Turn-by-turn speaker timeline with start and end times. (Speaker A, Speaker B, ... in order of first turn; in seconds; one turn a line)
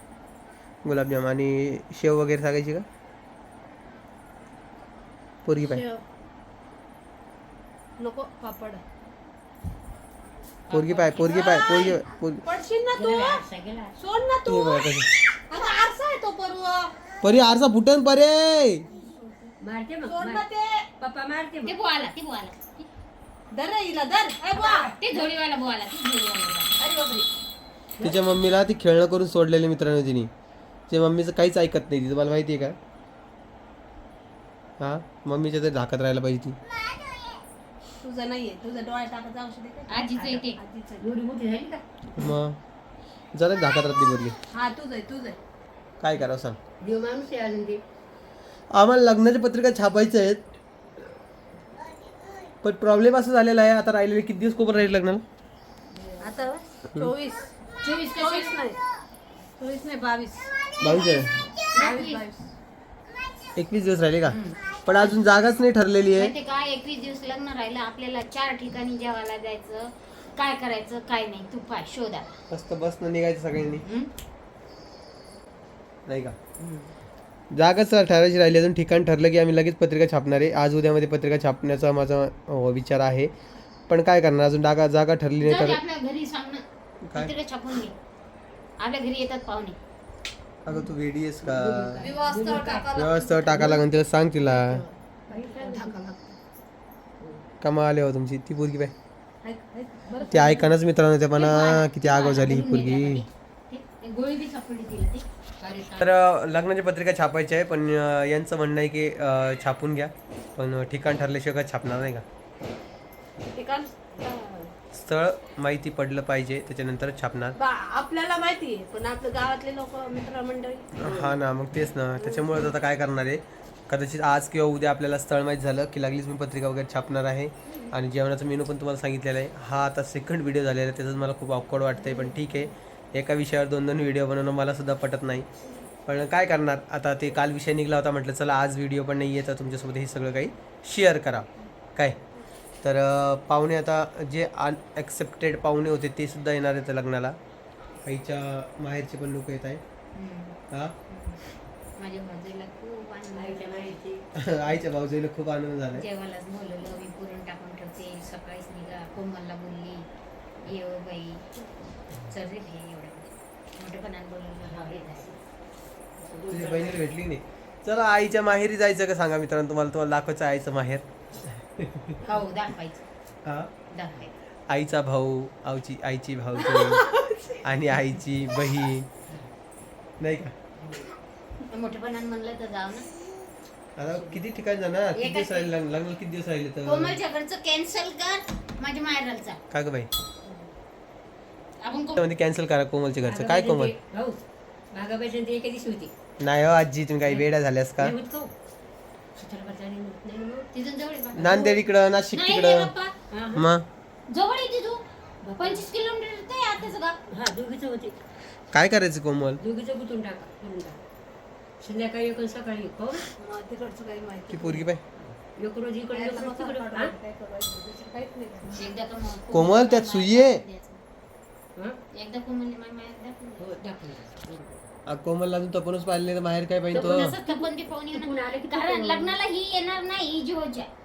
Speaker A: 0.8-2.9
Speaker A: 5.5-5.8
Speaker B: 5.6-6.0
Speaker B: 8.0-8.8
Speaker C: 10.7-11.4
Speaker A: 10.7-12.4
Speaker B: 11.2-13.4
Speaker D: 12.9-13.9
Speaker B: 14.0-16.9
Speaker A: 14.5-15.1
Speaker A: 17.2-18.8
Speaker D: 19.6-20.5
Speaker B: 20.1-20.9
Speaker D: 21.0-21.7
Speaker C: 21.6-22.9
Speaker B: 23.5-24.9
Speaker C: 24.5-26.9
Speaker B: 26.8-27.2
Speaker A: 28.0-30.3
Speaker A: 30.9-32.8
Speaker A: 34.8-36.6
Speaker B: 38.0-41.1
Speaker C: 39.9-40.6
Speaker D: 41.0-41.8
Speaker A: 42.2-42.6
Speaker A: 43.3-44.4
Speaker B: 44.5-45.4
Speaker A: 46.0-46.6
Speaker D: 46.8-47.8
Speaker A: 48.7-50.4
Speaker A: 52.6-55.2
Speaker B: 56.2-57.5
Speaker C: 57.8-58.5
Speaker B: 58.2-58.8
Speaker B: 59.6-60.5
Speaker C: 60.8-62.2
Speaker A: 60.8-61.4
Speaker B: 61.8-62.5
Speaker A: 63.6-66.3
Speaker C: 64.3-65.1
Speaker C: 66.2-72.3
Speaker A: 72.5-73.8
Speaker C: 73.8-74.1
Speaker A: 76.1-76.3
Speaker C: 76.6-76.9
Speaker A: 77.5-83.3
Speaker A: 83.9-85.8
Speaker C: 85.4-87.9
Speaker C: 88.8-89.8
Speaker A: 90.7-92.1
Speaker D: 91.4-93.8
Speaker B: 92.0-93.8
Speaker A: 92.9-94.8
Speaker B: 94.5-96.4
Speaker A: 97.6-98.9
Speaker B: 99.4-100.7
Speaker A: 100.3-103.2
Speaker C: 101.3-105.2
Speaker D: 105.6-106.1
Speaker A: 106.0-112.2
Speaker B: 113.5-114.7
Speaker A: 114.9-117.6
Speaker B: 117.6-121.3
Speaker A: 121.0-135.5
Speaker A: 136.1-142.2
Speaker A: 142.8-147.4
Speaker A: 148.1-149.8
Speaker C: 150.1-151.4
Speaker C: 152.0-154.0
Speaker D: 153.3-154.2
Speaker A: 154.4-156.1
Speaker C: 155.9-160.1
Speaker C: 160.6-161.4
Speaker C: 162.3-165.3
Speaker D: 164.7-165.4
Speaker D: 166.2-167.1
Speaker A: 166.5-172.2
Speaker C: 172.2-173.1
Speaker A: 173.4-173.7
Speaker C: 173.9-174.3
Speaker A: 174.7-177.1
Speaker B: 176.6-177.6
Speaker A: 177.6-179.1
Speaker A: 180.2-180.5
Speaker C: 181.7-183.1
Speaker A: 184.0-187.2
Speaker D: 184.1-184.4
Speaker C: 185.2-185.7
Speaker C: 186.8-189.6
Speaker A: 189.7-190.1
Speaker C: 191.8-192.2
Speaker A: 192.2-193.9
Speaker D: 193.2-194.4
Speaker D: 194.9-196.1
Speaker A: 196.4-198.2
Speaker D: 198.0-198.5
Speaker D: 199.4-200.7
Speaker C: 200.7-201.8
Speaker A: 201.4-202.9
Speaker C: 202.3-203.1
Speaker D: 203.3-203.6
Speaker A: 203.6-203.8
Speaker C: 204.3-205.0
Speaker D: 205.4-205.9
Speaker C: 205.6-207.2
Speaker D: 207.3-208.2
Speaker A: 208.7-209.6
Speaker D: 209.6-211.0
Speaker D: 211.8-213.3
Speaker B: 213.4-214.9
Speaker A: 214.5-215.0
Speaker D: 215.6-217.1
Speaker B: 216.1-218.8
Speaker C: 218.7-221.0
Speaker A: 219.5-220.6
Speaker C: 222.1-223.7
Speaker D: 223.6-224.8
Speaker A: 225.1-227.4
Speaker D: 226.9-229.3
Speaker C: 226.9-230.9